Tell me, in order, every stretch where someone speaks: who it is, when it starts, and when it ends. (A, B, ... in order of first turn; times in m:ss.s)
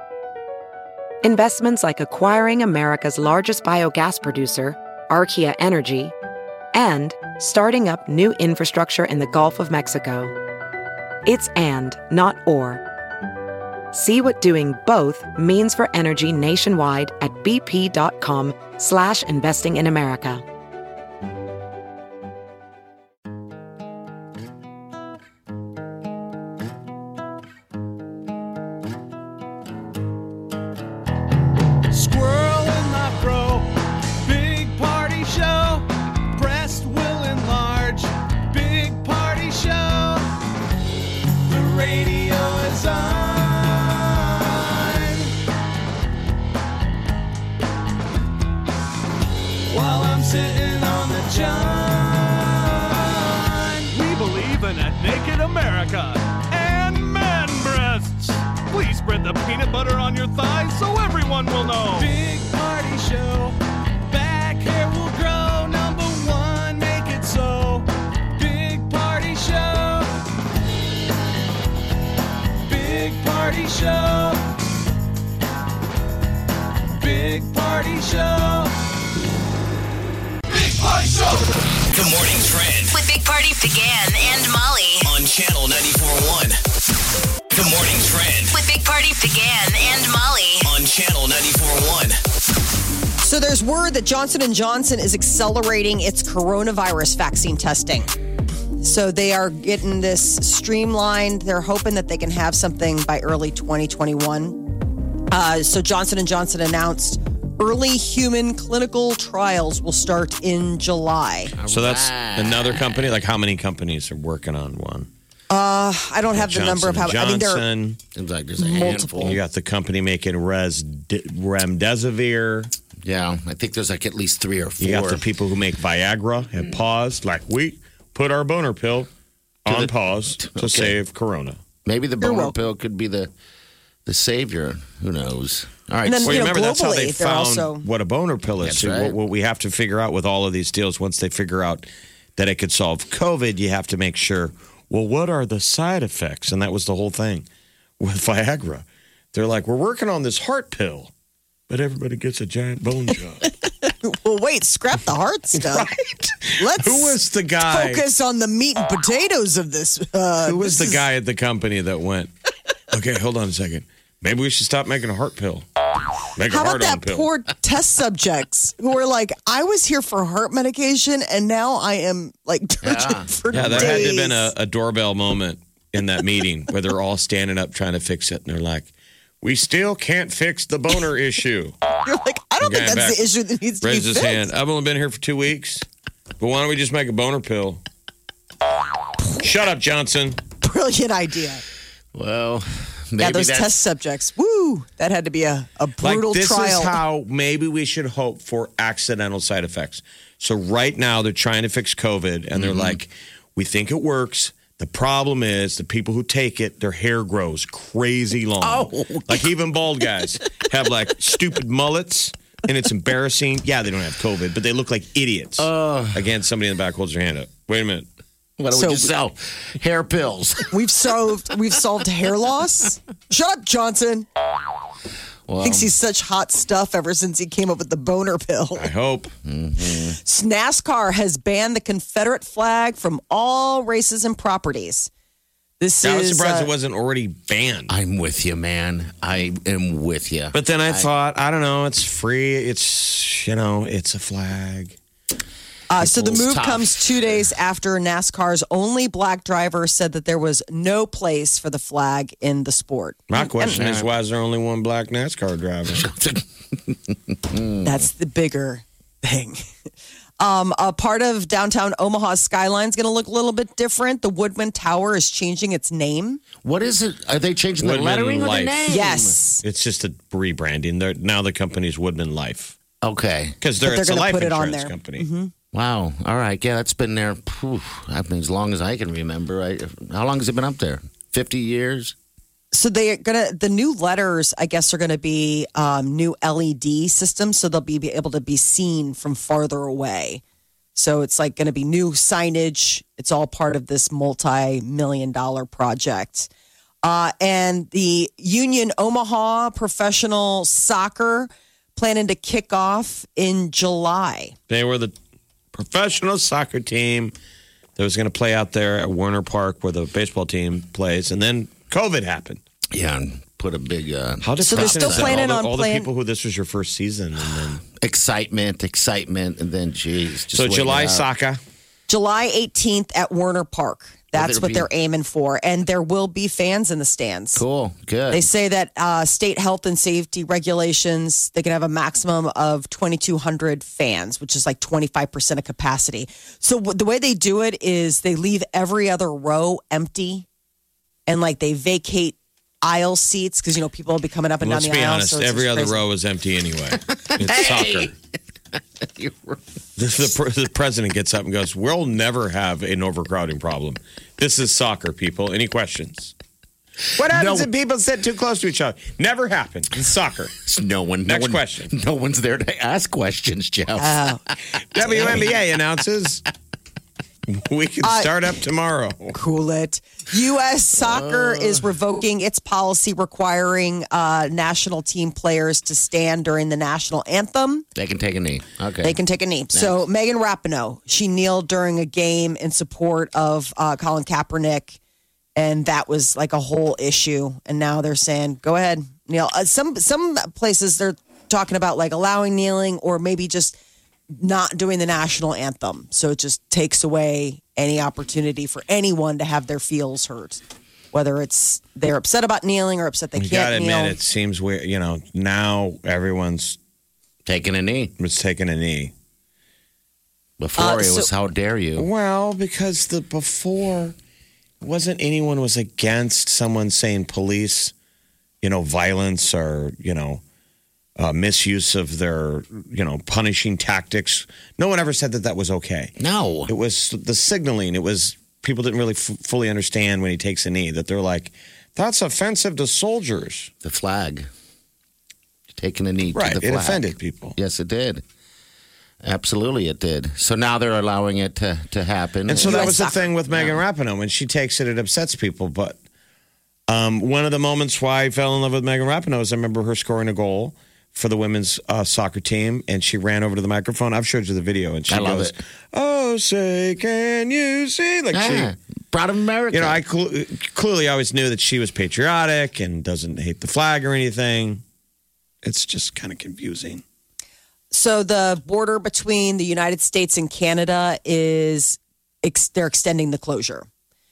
0:01.2-0:06.1 A
0:06.7-0:10.3 A
0:11.2-0:12.8 A
0:13.9-0:20.4 A
0:31.9-0:33.7 B
0:34.2-0:40.2 B
0:41.5-0:45.3 B
0:49.7-1:10.1 B
1:12.6-1:14.4 B
1:17.0-1:18.7 B
1:21.9-1:22.9 C
1:22.9-1:25.1 D
1:25.0-1:26.6 C
1:27.5-1:28.5 C
1:28.5-1:30.7 D
1:30.6-1:32.2 C
1:33.2-1:38.1 E
1:38.8-1:44.6 E
1:45.3-1:51.5 E
1:51.6-1:53.1 F
1:51.7-1:55.1 G
1:55.5-1:57.6 E
1:56.3-1:58.0 G
1:58.2-1:59.4 F
1:58.6-1:59.3 E
1:59.2-2:02.7 G
2:03.0-2:05.2 F
2:04.8-2:09.1 G
2:09.7-2:11.0 F
2:09.7-2:11.6 G
2:11.8-2:13.3 F
2:12.2-2:12.6 E
2:14.1-2:16.6 F
2:16.0-2:17.8 E
2:16.2-2:27.5 G
2:18.6-2:19.2 F
2:28.0-2:31.1 G
2:31.7-2:33.5 G
2:33.9-2:35.9 E
2:35.6-2:38.0 G
2:36.6-2:40.8 E
2:40.4-2:42.3 G
2:42.9-2:45.6 G
2:46.4-2:47.3 G
2:46.5-2:54.5 E
2:52.8-2:54.2 F
2:53.5-2:58.9 G
2:59.4-3:01.8 G
3:02.0-3:04.5 E
3:02.6-3:03.3 G
3:03.8-3:05.8 G
3:06.4-3:07.8 G
3:09.4-3:10.4 G
3:10.6-3:11.6 E
3:12.1-3:13.8 F
3:13.2-3:17.0 E
3:16.0-3:38.1 G
3:22.5-3:23.0 F
3:28.6-3:29.5 F
3:35.6-3:36.3 F
3:38.6-3:40.7 F
3:38.8-3:39.1 E
3:40.7-3:44.3 E
3:45.5-3:45.9 F
3:45.6-3:48.9 E
3:48.8-3:49.3 G
3:49.4-3:50.2 F
3:50.2-3:55.1 E
3:55.8-3:56.7 E
3:56.0-3:57.9 G
3:57.9-4:01.1 F
4:00.5-4:05.0 G
4:05.9-4:13.8 E
4:06.0-4:07.4 F
4:13.3-4:16.1 G
4:13.7-4:14.1 F
4:15.9-4:18.0 F
4:17.8-4:19.6 E
4:20.4-4:26.4 E
4:26.6-4:29.4 F
4:27.8-4:28.8 G
4:28.9-4:29.6 E
4:29.6-4:32.8 G
4:33.0-4:33.6 F
4:33.6-4:35.3 G
4:33.8-4:35.5 E
4:35.7-4:42.2 F
4:42.7-4:50.4 E
4:51.0-4:56.5 E
4:57.0-5:04.6 E
5:04.7-5:05.1 G
5:05.7-5:07.3 G
5:08.0-5:12.6 G
5:12.9-5:15.4 F
5:14.4-5:17.8 G
5:14.7-5:16.1 E
5:17.7-5:21.3 F
5:20.5-5:21.6 G
5:22.1-5:27.6 E
5:24.3-5:24.9 F
5:27.6-5:28.5 F
5:28.3-5:40.5 E
5:41.3-5:46.0 E
5:44.6-5:48.1 G
5:47.3-5:48.2 F
5:48.7-5:49.6 F
5:50.0-5:56.3 G
5:57.1-6:00.6 G
5:57.2-5:57.7 F
6:00.6-6:04.4 F
6:01.3-6:01.9 G
6:04.0-6:04.4 E
6:05.0-6:06.4 G
6:05.0-6:05.5 F
6:05.0-6:05.4 E
6:07.5-6:09.4 G
6:08.0-6:08.3 E
6:09.3-6:17.9 E
6:11.0-6:11.8 F
6:18.0-6:19.2 F
6:19.0-6:25.0 E
6:19.7-6:20.0 F
6:25.6-6:33.8 E
6:34.3-6:44.2 E
6:43.4-6:46.8 G
6:47.5-6:48.1 F
6:48.2-6:49.1 G
6:50.6-6:52.1 F
6:50.8-6:51.3 E
6:52.0-6:54.2 G
6:54.8-6:57.9 G
6:58.6-7:00.4 G
7:01.2-7:06.1 G
7:06.2-7:06.7 F
7:06.7-7:13.7 G
7:13.8-7:14.5 F
7:15.7-7:17.0 F
7:16.3-7:17.6 G
7:17.6-7:18.2 F
7:19.2-7:23.0 F
7:22.5-7:26.0 G
7:22.6-7:23.3 E
7:23.5-7:23.8 F
7:26.9-7:38.7 G
7:35.1-7:35.5 F
7:38.3-7:40.0 F
7:39.7-7:44.8 G
7:45.6-7:47.0 G
7:47.9-7:53.9 E